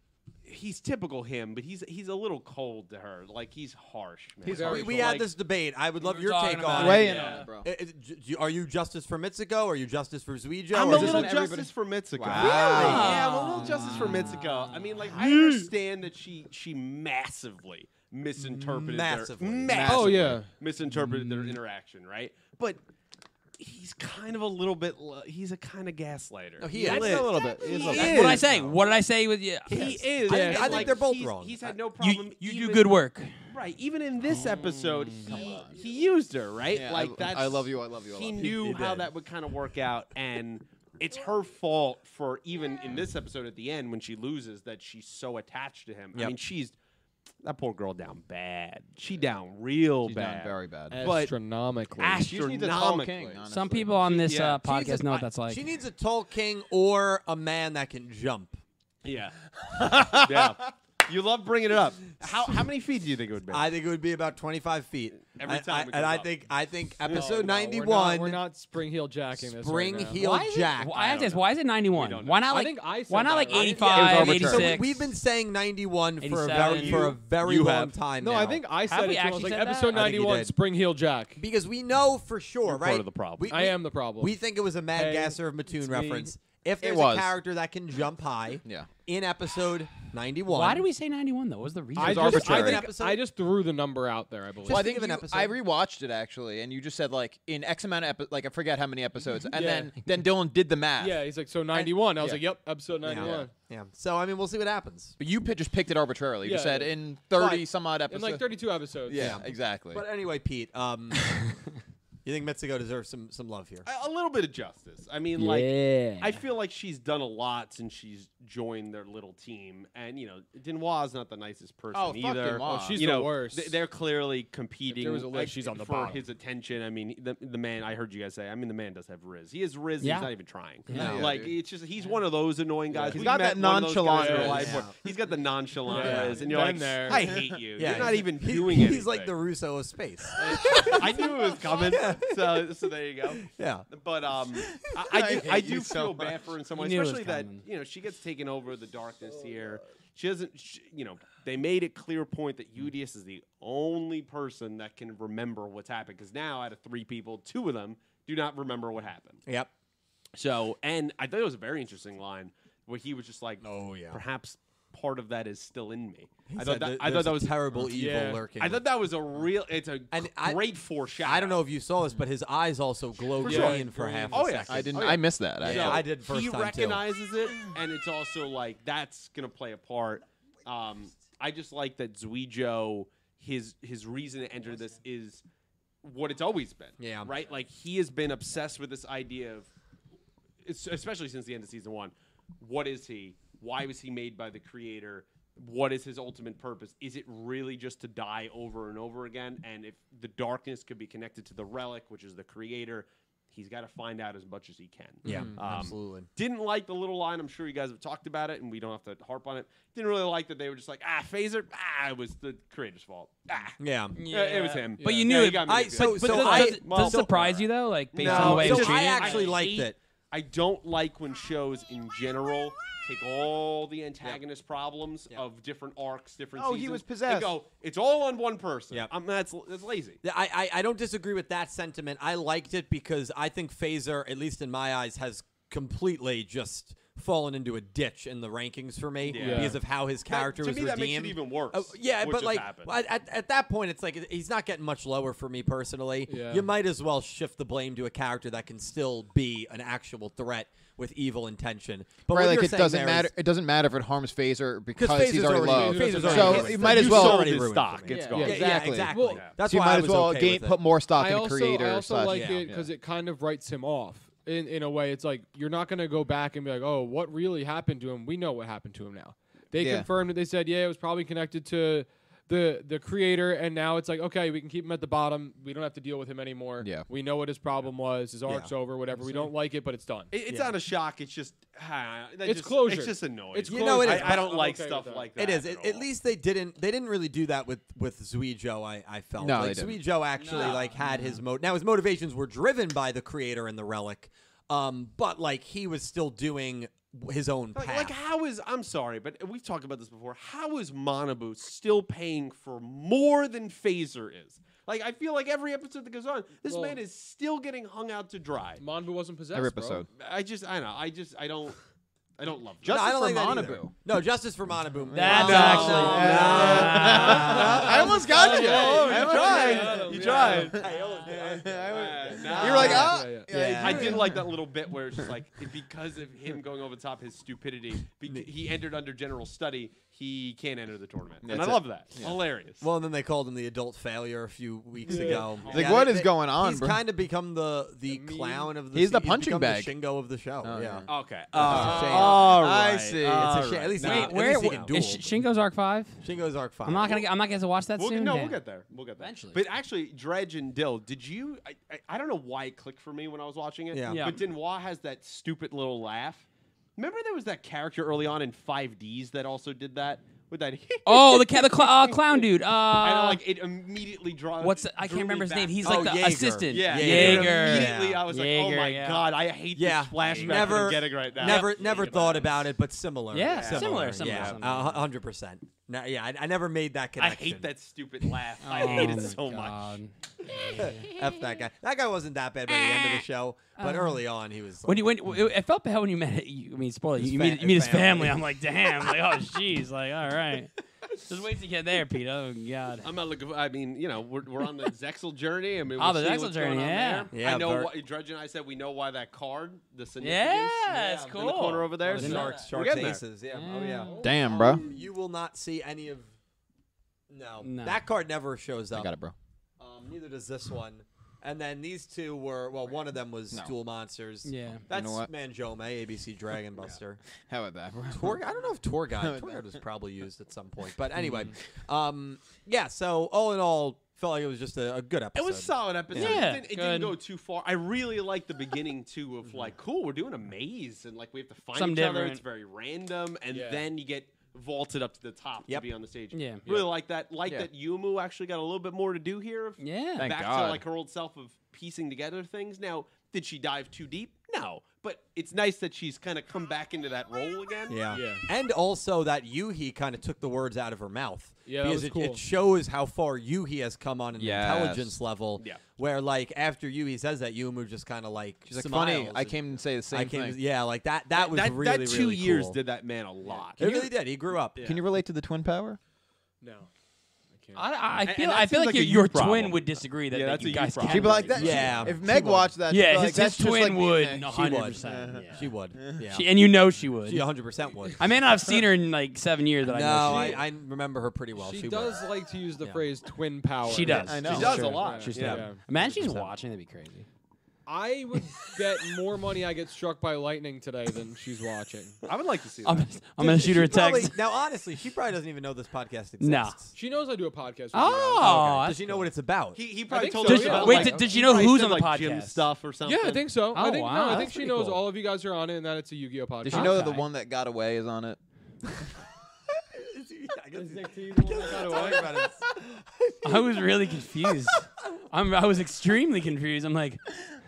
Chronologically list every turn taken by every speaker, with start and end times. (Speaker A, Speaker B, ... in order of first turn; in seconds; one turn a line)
Speaker A: 0.5-5.3
Speaker B: 4.4-5.2
Speaker C: 4.5-5.2
Speaker D: 4.6-11.4
Speaker E: 6.0-7.5
Speaker B: 6.7-7.7
Speaker A: 6.8-7.5
Speaker A: 10.7-22.8
Speaker B: 10.8-13.2
Speaker D: 12.3-13.2
Speaker E: 12.4-15.1
Speaker C: 15.1-15.7
Speaker D: 18.4-20.2
Speaker B: 19.7-20.4
Speaker C: 19.8-20.5
Speaker A: 23.6-28.8
Speaker D: 26.6-28.4
Speaker B: 26.7-28.6
Speaker E: 27.9-30.0
Speaker D: 29.7-31.8
Speaker A: 29.7-33.0
Speaker C: 30.3-31.0
Speaker E: 32.0-33.3
Speaker A: 33.5-46.8
Speaker E: 34.3-35.2
Speaker B: 35.3-35.8
Speaker B: 36.7-38.7
Speaker D: 38.4-39.1
Speaker A: 47.4-51.3
Speaker B: 50.0-51.0
Speaker C: 50.9-52.3
Speaker A: 52.0-53.4
Speaker B: 52.2-54.0
Speaker E: 53.5-55.6
Speaker A: 54.1-54.6
Speaker D: 54.6-58.6
Speaker A: 59.0-63.7
Speaker B: 59.8-60.5
Speaker D: 63.5-68.4
Speaker A: 65.3-66.3
Speaker A: 67.0-67.5
Speaker C: 67.1-70.2
Speaker D: 69.4-71.1
Speaker E: 70.2-75.1
Speaker A: 71.0-72.5
Speaker C: 72.5-74.3
Speaker B: 73.7-74.8
Speaker D: 74.0-78.6
Speaker E: 76.2-77.2
Speaker A: 76.6-77.9
Speaker C: 78.2-81.4
Speaker E: 78.9-80.1
Speaker D: 79.9-80.5
Speaker D: 81.4-90.8
Speaker A: 82.7-83.5
Speaker C: 83.5-84.4
Speaker C: 84.9-86.3
Speaker B: 86.8-87.3
Speaker B: 88.6-88.9
Speaker E: 90.5-92.4
Speaker C: 92.0-94.9
Speaker B: 92.0-92.9
Speaker D: 92.2-93.2
Speaker D: 94.7-95.6
Speaker B: 94.7-101.2
Speaker C: 99.5-99.9
Speaker C: 101.0-103.5
Speaker B: 101.8-102.5
Speaker D: 103.0-105.2
Speaker B: 103.1-103.5
Speaker B: 105.2-108.5
Speaker C: 106.4-109.4
Speaker B: 109.0-110.1
Speaker D: 109.1-111.4
Speaker D: 112.2-113.9
Speaker A: 113.8-139.3
Speaker E: 115.4-116.4
Speaker B: 121.9-123.0
Speaker C: 122.6-123.8
Speaker C: 124.9-126.2
Speaker E: 130.0-130.3
Speaker E: 130.9-131.2
Speaker D: 130.9-131.4
Speaker B: 130.9-131.5
Speaker C: 132.9-133.3
Speaker B: 133.1-134.9
Speaker C: 134.1-134.7
Speaker D: 134.4-135.0
Speaker C: 135.9-137.3
Speaker D: 135.9-136.4
Speaker D: 137.8-142.8
Speaker C: 140.4-141.0
Speaker A: 140.7-159.4
Speaker D: 143.4-143.9
Speaker B: 144.7-146.4
Speaker E: 146.8-147.7
Speaker A: 160.4-167.9
Speaker D: 163.6-164.2
Speaker D: 166.5-168.8
Speaker C: 167.8-168.4
Speaker A: 168.6-171.6
Speaker D: 170.1-170.6
Speaker D: 171.2-177.1
Speaker A: 173.4-185.4
Speaker C: 173.4-174.4
Speaker B: 174.7-176.1
Speaker A: 186.0-189.7
Speaker D: 187.0-187.3
Speaker A: 190.6-230.2
Speaker D: 205.2-206.3
Speaker D: 213.8-214.2
Speaker E: 214.1-219.6
Speaker C: 215.0-215.3
Speaker D: 215.6-217.4
Speaker D: 218.2-219.9
Speaker B: 226.6-227.5
Speaker D: 230.2-253.3
Speaker A: 239.2-242.9
Speaker C: 239.4-239.8
Speaker C: 246.3-246.7
Speaker B: 252.3-257.6
Speaker D: 254.9-260.8
Speaker C: 255.4-257.2
Speaker A: 256.0-259.6
Speaker B: 258.1-262.9
Speaker C: 258.2-259.5
Speaker C: 261.1-280.3
Speaker D: 262.3-262.6
Speaker B: 269.8-270.1
Speaker B: 276.8-277.1
Speaker A: 280.3-286.1
Speaker D: 280.5-280.8
Speaker C: 282.4-285.3
Speaker D: 283.7-284.6
Speaker D: 285.4-298.1
Speaker B: 289.4-290.0
Speaker E: 290.4-291.4
Speaker A: 290.4-290.8
Speaker A: 297.8-308.8
Speaker C: 306.6-307.0
Speaker C: 308.8-310.1
Speaker B: 309.5-310.1
Speaker A: 310.2-311.8
Speaker A: 312.4-313.1
Speaker B: 312.8-313.9
Speaker D: 312.9-324.3
Speaker E: 315.1-317.8
Speaker B: 315.1-324.5
Speaker A: 315.3-332.8
Speaker C: 317.1-321.1
Speaker C: 322.1-324.2
Speaker E: 322.7-323.0
Speaker B: 331.4-332.4
Speaker D: 332.8-345.4
Speaker C: 335.1-335.6
Speaker A: 335.1-335.9
Speaker B: 335.7-337.0
Speaker C: 338.1-338.7
Speaker B: 338.9-339.9
Speaker B: 340.6-344.0
Speaker A: 341.1-344.9
Speaker E: 344.0-346.2
Speaker D: 346.2-347.2
Speaker E: 346.8-348.6
Speaker A: 348.0-372.6
Speaker E: 349.2-349.6
Speaker D: 353.9-354.4
Speaker E: 354.1-354.4
Speaker E: 361.1-363.4
Speaker E: 364.6-369.3
Speaker D: 365.9-368.2
Speaker D: 369.8-377.7
Speaker E: 370.2-371.7
Speaker E: 373.3-375.0
Speaker A: 373.5-374.7
Speaker A: 377.2-379.9
Speaker E: 378.6-381.1
Speaker D: 380.7-385.1
Speaker E: 382.7-383.2
Speaker E: 383.8-384.2
Speaker E: 384.8-393.1
Speaker D: 387.2-389.2
Speaker A: 393.0-403.2
Speaker E: 396.0-397.3
Speaker D: 397.3-397.9
Speaker E: 400.2-402.6
Speaker D: 400.9-406.3
Speaker E: 403.5-404.2
Speaker C: 403.9-404.7
Speaker B: 404.2-404.8
Speaker D: 407.3-409.1
Speaker E: 407.6-408.0
Speaker B: 408.9-409.4
Speaker D: 409.8-417.2
Speaker E: 414.4-414.8
Speaker B: 414.9-415.3
Speaker B: 417.4-418.4
Speaker D: 418.1-426.4
Speaker B: 419.1-419.8
Speaker B: 421.2-421.5
Speaker A: 425.4-448.1
Speaker E: 426.1-427.2
Speaker E: 431.8-432.4
Speaker C: 433.5-433.8
Speaker E: 436.3-436.6
Speaker C: 436.6-436.9
Speaker E: 439.8-440.3
Speaker B: 440.2-440.8
Speaker D: 447.9-462.8
Speaker C: 448.1-448.5
Speaker C: 451.7-452.4
Speaker B: 454.4-455.2
Speaker A: 455.6-455.9
Speaker B: 458.7-460.6
Speaker A: 461.3-463.8
Speaker D: 463.8-464.9
Speaker B: 463.8-464.1
Speaker A: 464.8-465.0
Speaker B: 464.8-466.0
Speaker C: 466.6-466.9
Speaker C: 467.5-467.9
Speaker E: 467.8-472.1
Speaker A: 468.2-472.1
Speaker B: 471.0-476.2
Speaker D: 471.5-472.7
Speaker E: 472.9-477.5
Speaker D: 474.5-476.5
Speaker D: 477.2-478.3
Speaker E: 478.2-480.6
Speaker D: 479.8-482.2
Speaker A: 480.3-480.6
Speaker C: 481.6-485.8
Speaker E: 483.9-487.3
Speaker B: 484.0-485.1
Speaker A: 484.4-485.7
Speaker D: 486.0-486.5
Speaker C: 487.9-492.2
Speaker A: 492.2-493.1
Speaker E: 492.9-494.4
Speaker D: 493.4-496.9
Speaker E: 496.4-496.8
Speaker C: 496.9-498.9
Speaker E: 497.9-499.3
Speaker D: 498.4-499.8
Speaker A: 499.8-503.5
Speaker C: 500.1-501.3
Speaker E: 500.4-502.7
Speaker C: 503.1-507.1
Speaker E: 503.7-505.0
Speaker B: 504.3-504.6
Speaker B: 506.6-508.4
Speaker E: 506.7-507.3
Speaker D: 509.9-513.9
Speaker C: 510.8-512.5
Speaker E: 513.4-517.4
Speaker D: 514.5-515.2